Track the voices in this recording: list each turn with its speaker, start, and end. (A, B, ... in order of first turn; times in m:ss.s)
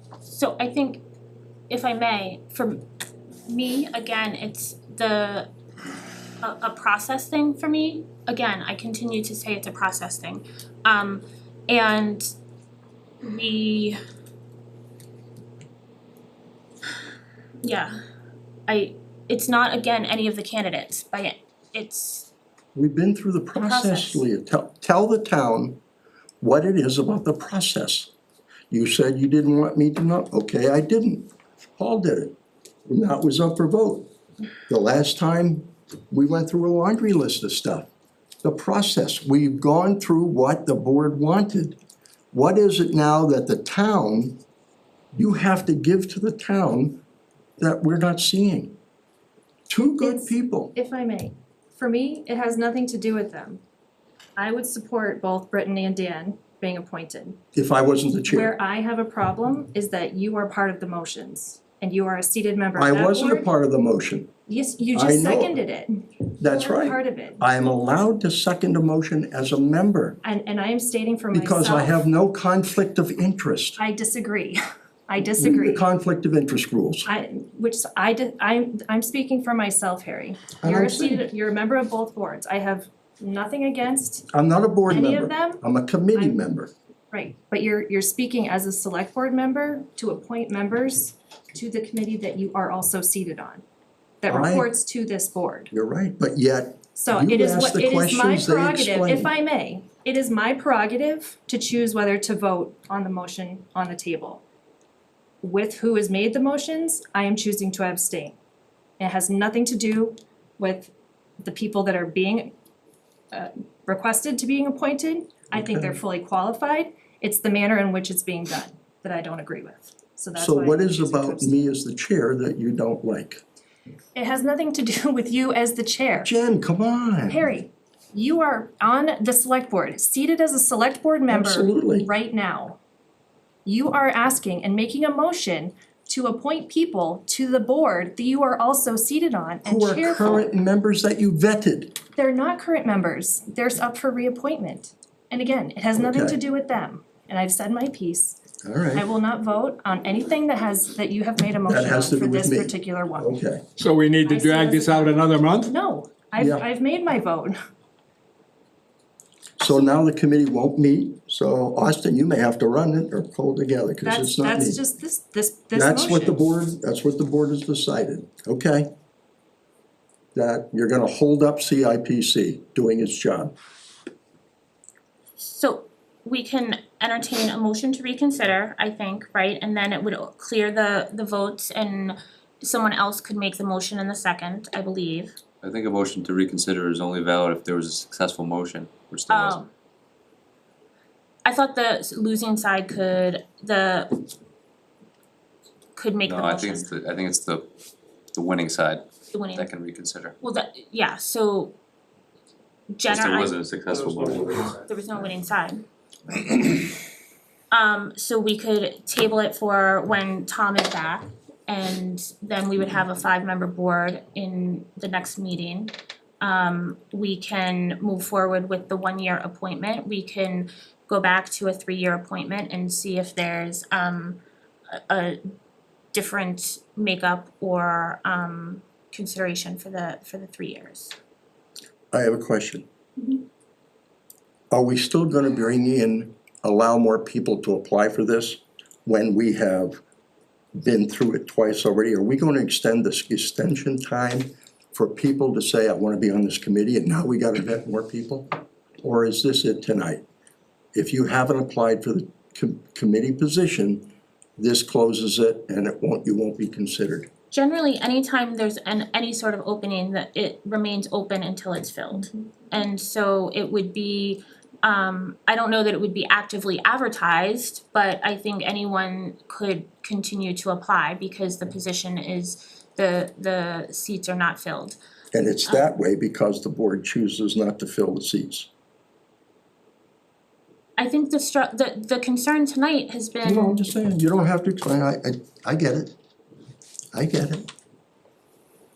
0:00.3-0:01.0 A
0:01.7-0:02.8 A
0:03.5-0:05.5 A
0:06.4-0:12.3 A
0:13.2-0:14.0 A
0:17.6-0:17.9 A
0:18.7-0:22.3 A
0:22.8-0:25.8 B
0:23.6-0:24.2 A
0:26.4-0:28.1 B
0:28.7-0:32.4 B
0:32.9-0:34.1 B
0:34.7-0:37.9 B
0:38.4-0:41.8 B
0:42.3-0:44.4 B
0:45.1-0:47.0 B
0:47.6-0:48.7 B
0:49.7-0:50.7 B
0:50.0-0:53.6 C
0:54.4-0:57.4 C
0:57.6-0:58.6 B
0:58.3-1:03.5 C
1:02.8-1:04.3 B
1:04.5-1:07.5 C
1:04.9-1:05.6 B
1:06.3-1:10.2 B
1:10.2-1:12.0 C
1:11.3-1:13.8 B
1:13.8-1:15.8 C
1:15.2-1:17.1 B
1:17.1-1:24.3 C
1:20.6-1:21.2 B
1:24.3-1:26.7 B
1:24.9-1:25.6 C
1:27.1-1:33.6 C
1:34.2-1:35.7 C
1:34.3-1:34.7 B
1:35.7-1:39.3 B
1:37.0-1:44.4 C
1:45.4-1:48.4 C
1:49.0-1:52.5 C
1:53.3-2:01.7 C
1:55.5-1:56.0 B
2:00.4-2:03.4 B
2:04.2-2:06.3 C
2:06.2-2:07.5 B
2:07.3-2:12.8 C
2:11.3-2:12.1 B
2:13.6-2:20.5 C
2:19.6-2:22.0 B
2:22.2-2:28.4 C
2:26.0-2:26.4 B
2:28.6-2:29.1 B
2:28.9-2:33.3 C
2:31.6-2:33.6 B
2:33.8-2:35.7 D
2:34.2-2:37.6 C
2:36.4-2:36.7 B
2:39.6-2:44.8 B
2:44.0-2:46.4 C
2:45.7-2:48.9 B
2:50.4-2:53.5 B
2:55.4-3:05.4 A
3:05.6-3:09.6 E
3:09.3-3:09.7 A
3:11.4-3:14.3 A
3:16.0-3:16.9 A
3:16.2-3:17.7 E
3:18.3-3:19.0 E
3:19.3-3:19.7 A
3:19.6-3:20.4 E
3:20.4-3:21.7 A
3:22.9-3:23.6 A
3:23.1-3:24.8 E
3:24.7-3:25.8 A
3:27.7-3:44.4 A
3:44.9-3:45.4 A
3:46.1-3:51.1 A
3:52.1-3:52.8 B
3:54.7-4:00.0 B
4:00.8-4:08.5 B
4:09.0-4:10.2 B
4:10.9-4:17.3 B
4:17.5-4:35.0 A
4:35.3-4:38.7 B
4:41.0-4:43.8 A
4:43.4-4:46.2 B
4:47.1-4:47.7 B